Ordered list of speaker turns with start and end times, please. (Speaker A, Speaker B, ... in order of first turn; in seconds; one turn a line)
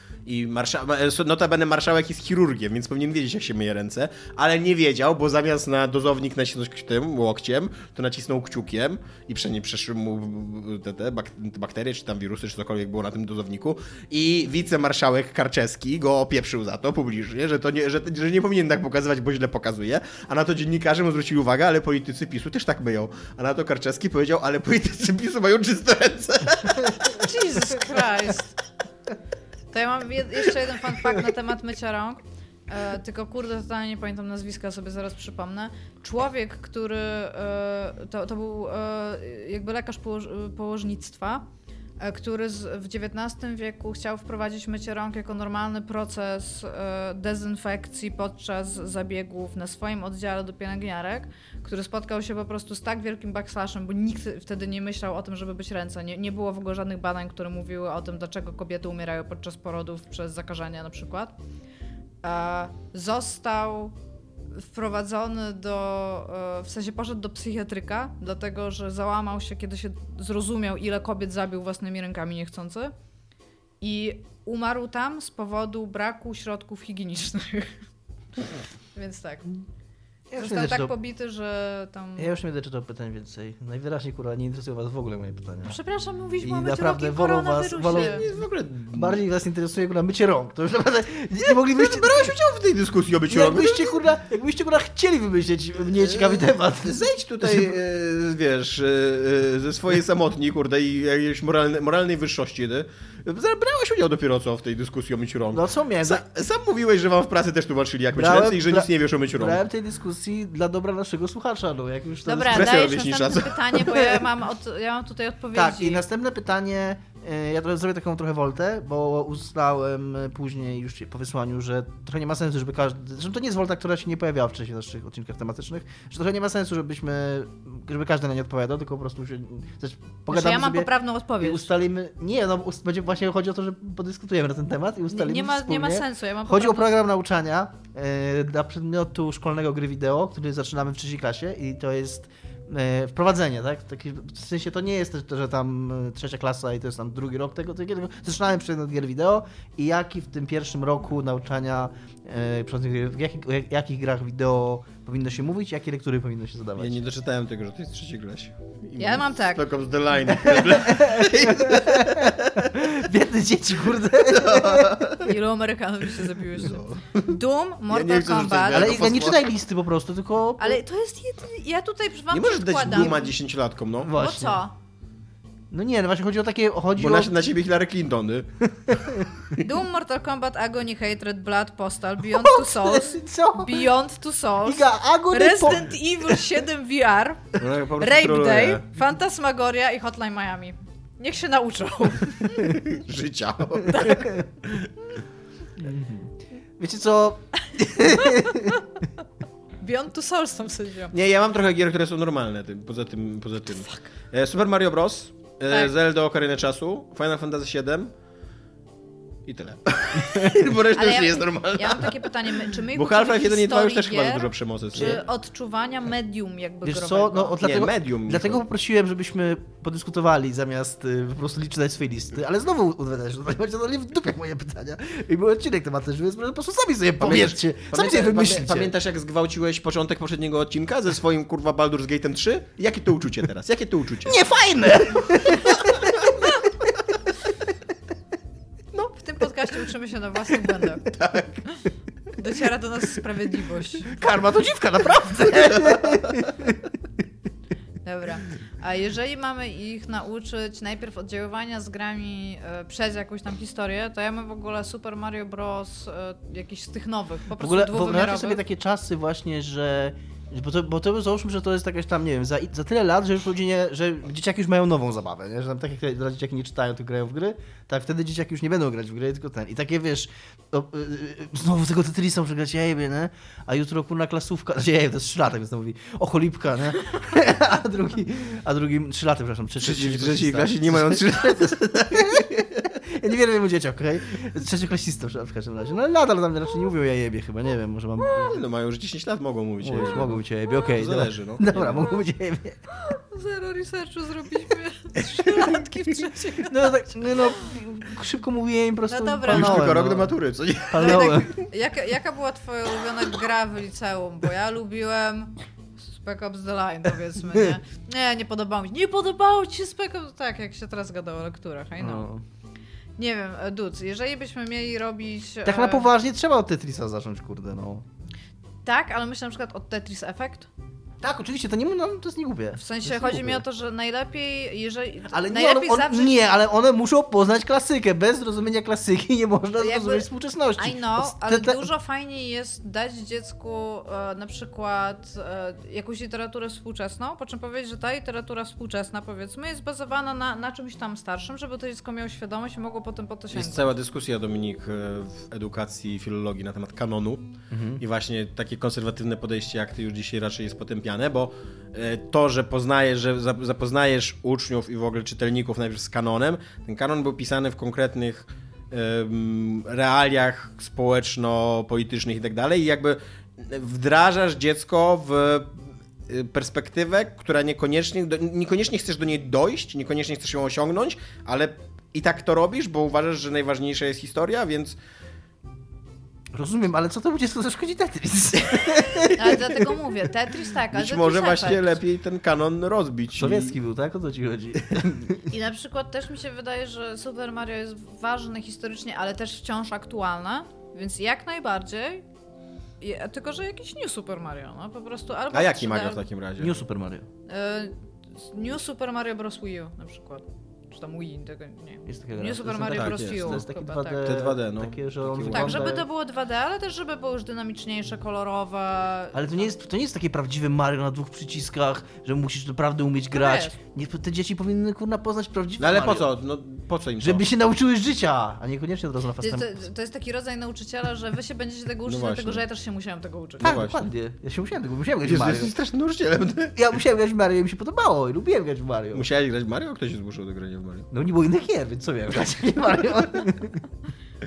Speaker A: 0.2-27.2
Speaker B: 27.1-28.6
Speaker B: 29.7-41.4
Speaker B: 42.0-61.3
Speaker B: 62.2-63.9
Speaker B: 64.5-72.9
Speaker B: 73.8-77.8
Speaker B: 78.9-79.5
Speaker C: 80.3-80.9
Speaker B: 80.4-82.3
Speaker C: 82.2-85.7
Speaker B: 85.7-88.2
Speaker C: 86.4-88.3
Speaker A: 87.9-89.2
Speaker C: 88.9-92.3
Speaker A: 91.5-94.0
Speaker C: 93.3-97.7
Speaker A: 96.0-109.6
Speaker C: 105.5-106.2
Speaker C: 108.1-112.7
Speaker B: 112.2-116.0
Speaker A: 112.5-114.1
Speaker C: 115.5-130.9
Speaker B: 130.3-131.7
Speaker C: 131.4-157.0
Speaker B: 135.1-136.9
Speaker A: 156.8-162.7
Speaker B: 159.0-159.6
Speaker C: 160.4-165.2
Speaker A: 164.1-165.3
Speaker B: 165.2-168.9
Speaker A: 166.5-167.3
Speaker A: 167.9-169.5
Speaker C: 168.7-170.8
Speaker B: 170.6-173.3
Speaker A: 172.3-174.1
Speaker C: 174.0-174.6
Speaker B: 174.1-174.7
Speaker C: 175.7-177.3
Speaker A: 177.0-179.2
Speaker C: 178.8-179.3
Speaker B: 179.6-192.8
Speaker C: 182.3-183.9
Speaker C: 184.6-185.9
Speaker A: 187.6-188.8
Speaker A: 192.6-194.9
Speaker B: 193.9-194.3
Speaker C: 195.8-198.8
Speaker B: 198.0-198.8
Speaker B: 199.8-201.1
Speaker A: 201.1-208.1
Speaker B: 203.7-204.1
Speaker A: 209.4-215.2
Speaker B: 210.9-217.6
Speaker C: 216.8-228.9
Speaker A: 217.6-218.6
Speaker A: 227.2-234.4
Speaker C: 234.2-236.5
Speaker A: 235.4-236.1
Speaker B: 238.9-241.1
Speaker A: 241.1-241.5
Speaker B: 242.3-244.2
Speaker C: 244.1-246.7
Speaker A: 245.5-246.4
Speaker B: 248.0-258.6
Speaker C: 257.6-288.5
Speaker A: 279.8-282.5
Speaker A: 288.3-292.1
Speaker C: 289.8-292.8
Speaker B: 293.0-297.6
Speaker A: 295.2-295.7
Speaker C: 296.6-300.3
Speaker B: 299.1-299.9
Speaker A: 299.5-301.2
Speaker C: 300.9-301.6
Speaker B: 301.0-312.3
Speaker C: 312.0-312.4
Speaker B: 313.2-316.1
Speaker C: 315.6-318.0
Speaker B: 318.8-320.7
Speaker C: 321.2-323.6
Speaker B: 322.8-326.4
Speaker C: 325.3-331.9
Speaker B: 329.8-330.2
Speaker B: 330.8-343.9
Speaker A: 343.5-375.0
Speaker C: 347.7-348.0
Speaker C: 376.5-379.7
Speaker B: 379.3-382.0
Speaker A: 380.9-383.8
Speaker C: 383.4-385.4
Speaker B: 385.5-392.2
Speaker B: 393.0-396.2
Speaker A: 395.5-396.8
Speaker C: 396.6-397.3
Speaker B: 397.5-404.4
Speaker C: 402.1-406.0
Speaker A: 402.9-403.6
Speaker A: 404.2-406.0
Speaker B: 405.5-409.7
Speaker C: 409.3-416.3
Speaker B: 413.3-413.8
Speaker A: 415.8-417.5
Speaker C: 417.2-419.7
Speaker B: 419.4-423.8
Speaker A: 422.0-422.6
Speaker A: 423.6-424.1
Speaker C: 423.6-425.7
Speaker A: 425.2-426.7
Speaker C: 426.7-429.2
Speaker A: 429.1-431.1
Speaker C: 431.1-433.8